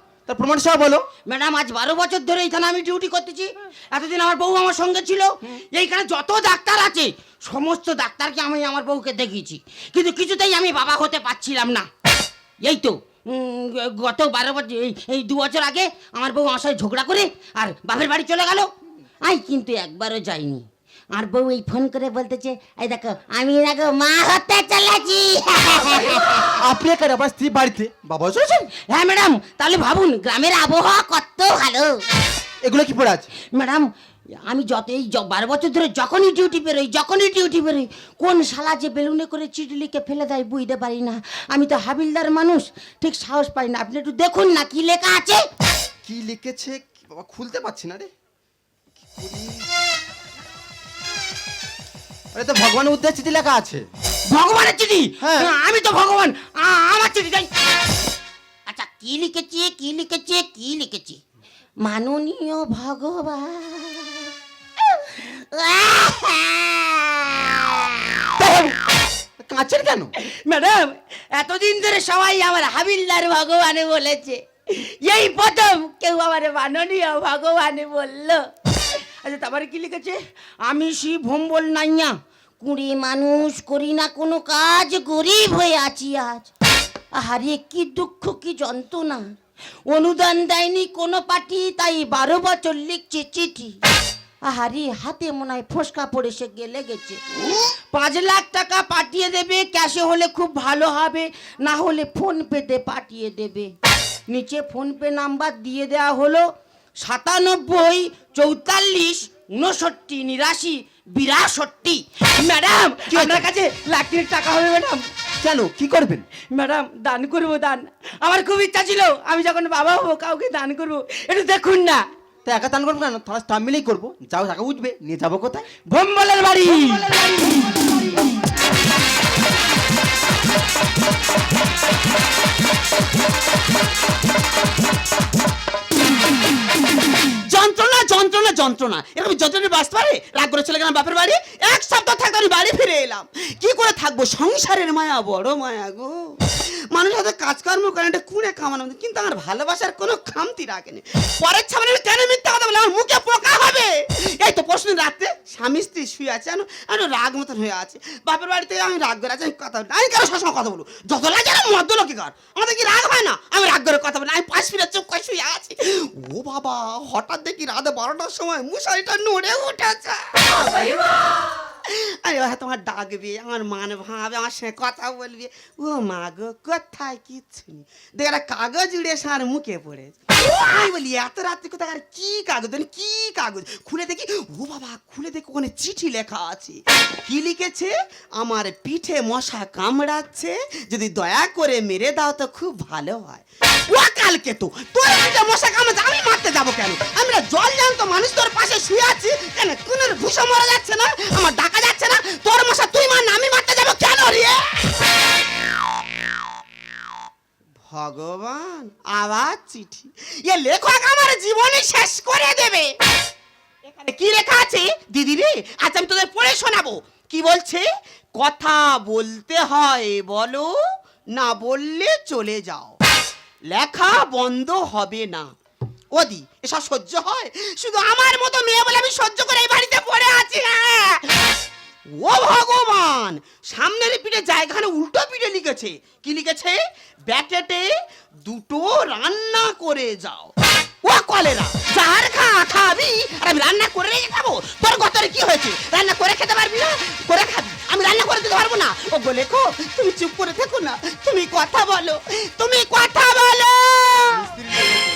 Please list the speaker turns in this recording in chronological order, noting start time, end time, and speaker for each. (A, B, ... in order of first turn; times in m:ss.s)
0:00.3-0:01.0 A
0:01.2-0:11.9 B
0:12.6-0:18.7 B
0:19.2-0:26.5 B
0:26.0-0:28.7 A
0:28.7-0:32.0 B
0:32.6-0:33.3 A
0:33.5-0:33.9 B
0:34.4-0:45.4 B
0:46.0-0:48.1 A
0:49.1-0:49.6 A
0:52.3-0:53.9 A
0:54.3-0:57.5 B
0:55.2-0:55.5 A
0:58.7-1:01.2 B
1:01.8-1:04.3 B
1:04.9-1:08.4 B
1:08.4-1:08.7 A
1:09.4-1:10.1 A
1:10.2-1:18.5 B
1:19.2-1:26.5 B
1:27.1-1:29.2 B
1:29.9-1:33.8 B
1:34.4-1:37.2 B
1:37.9-1:43.7 B
1:44.3-1:46.5 B
1:47.0-1:55.0 B
1:53.1-1:53.4 A
1:55.4-1:56.2 A
1:56.5-2:02.0 B
2:02.4-2:05.6 A
2:05.9-2:07.5 B
2:17.4-3:25.0 C
3:27.9-3:32.9 C
3:33.9-3:40.8 C
3:41.3-3:43.0 C
3:43.7-3:45.5 C
3:46.1-3:51.6 C
3:52.1-4:14.7 C